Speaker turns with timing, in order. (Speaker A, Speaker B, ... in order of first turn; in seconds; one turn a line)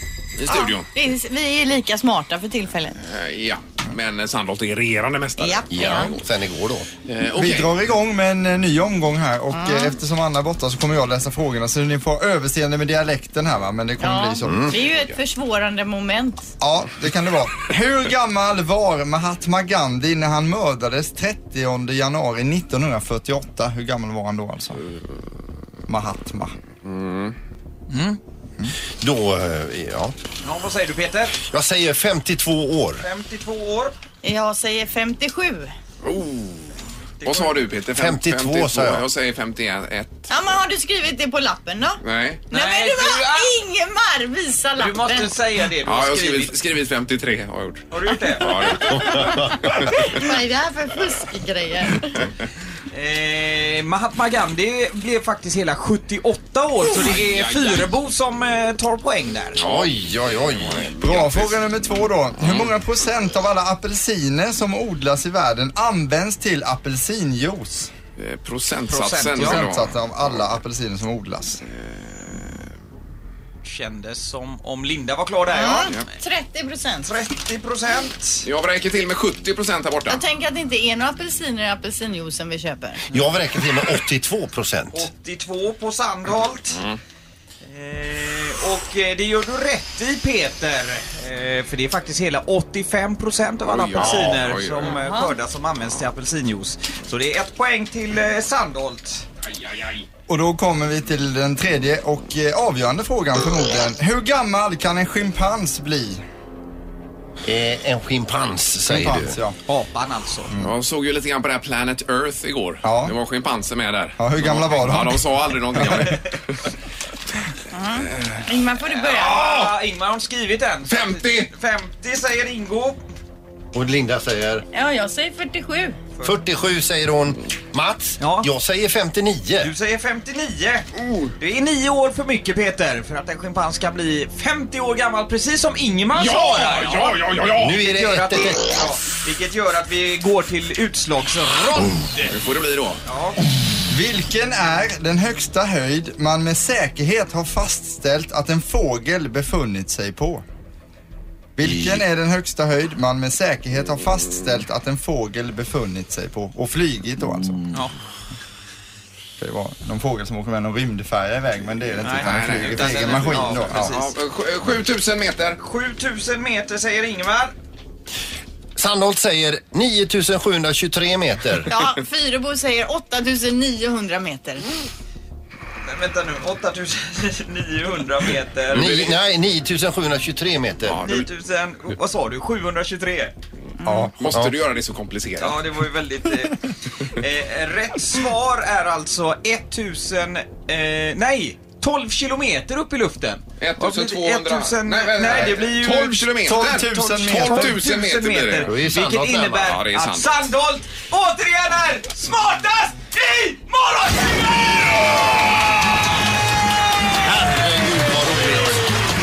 Speaker A: 0.4-0.9
Speaker B: 0.5-3.0
Speaker A: 3.0-6.3
Speaker B: 5.4-6.1
Speaker C: 5.7-6.9
Speaker A: 7.1-7.8
Speaker D: 7.4-14.7
Speaker B: 9.5-10.0
Speaker B: 14.0-16.5
Speaker C: 14.4-14.8
Speaker A: 14.9-15.2
Speaker D: 16.6-24.8
Speaker D: 25.9-26.6
Speaker A: 26.9-27.4
Speaker E: 27.9-28.2
Speaker C: 29.0-30.1
Speaker E: 30.4-31.4
Speaker C: 31.4-33.0
Speaker E: 33.0-34.0
Speaker B: 34.2-35.7
Speaker A: 36.0-40.3
Speaker E: 37.2-37.7
Speaker C: 37.9-39.1
Speaker B: 40.3-45.4
Speaker A: 42.0-42.5
Speaker E: 42.5-43.5
Speaker E: 44.7-46.6
Speaker A: 45.8-50.1
Speaker E: 47.9-49.0
Speaker B: 48.4-52.3
Speaker C: 49.0-49.7
Speaker E: 52.9-59.6
Speaker A: 57.0-57.9
Speaker C: 59.6-60.9
Speaker A: 59.6-62.8
Speaker D: 61.0-67.9
Speaker A: 68.2-70.4
Speaker E: 68.9-69.7
Speaker D: 69.3-71.6
Speaker A: 71.7-72.7
Speaker E: 73.6-76.1
Speaker B: 75.5-77.2
Speaker E: 77.0-78.5
Speaker A: 78.5-80.2
Speaker B: 80.1-83.0
Speaker C: 83.1-85.1
Speaker E: 84.9-86.8
Speaker A: 86.7-87.0
Speaker E: 87.7-99.2
Speaker A: 93.6-95.0
Speaker B: 94.9-95.3
Speaker A: 99.5-100.0
Speaker D: 100.3-106.2
Speaker C: 107.5-109.4
Speaker D: 108.9-109.6
Speaker E: 109.7-110.6
Speaker A: 110.6-116.6
Speaker D: 112.8-113.2
Speaker D: 114.2-116.0
Speaker B: 117.7-119.6
Speaker A: 118.1-118.5
Speaker E: 119.0-123.0
Speaker A: 119.2-119.7
Speaker A: 120.9-121.5
Speaker C: 123.7-124.7
Speaker B: 124.7-126.0
Speaker C: 126.2-129.7
Speaker E: 128.2-128.5
Speaker E: 129.6-142.4
Speaker A: 131.0-131.3
Speaker A: 136.1-137.8
Speaker C: 137.6-138.6
Speaker A: 142.3-143.0
Speaker E: 143.1-143.4
Speaker D: 143.9-150.4
Speaker D: 151.6-157.8
Speaker D: 159.4-164.0
Speaker E: 162.0-164.1
Speaker A: 162.2-165.6
Speaker E: 165.6-167.5
Speaker C: 168.8-171.7
Speaker B: 171.7-174.7
Speaker E: 175.9-179.2
Speaker C: 178.7-181.2
Speaker A: 180.8-181.1
Speaker E: 181.0-183.3
Speaker B: 183.8-184.1
Speaker A: 184.2-185.6
Speaker C: 184.3-184.5
Speaker E: 185.4-204.8
Speaker A: 193.6-198.7
Speaker D: 196.4-197.8
Speaker C: 198.7-199.6
Speaker A: 199.4-200.6
Speaker C: 207.2-208.9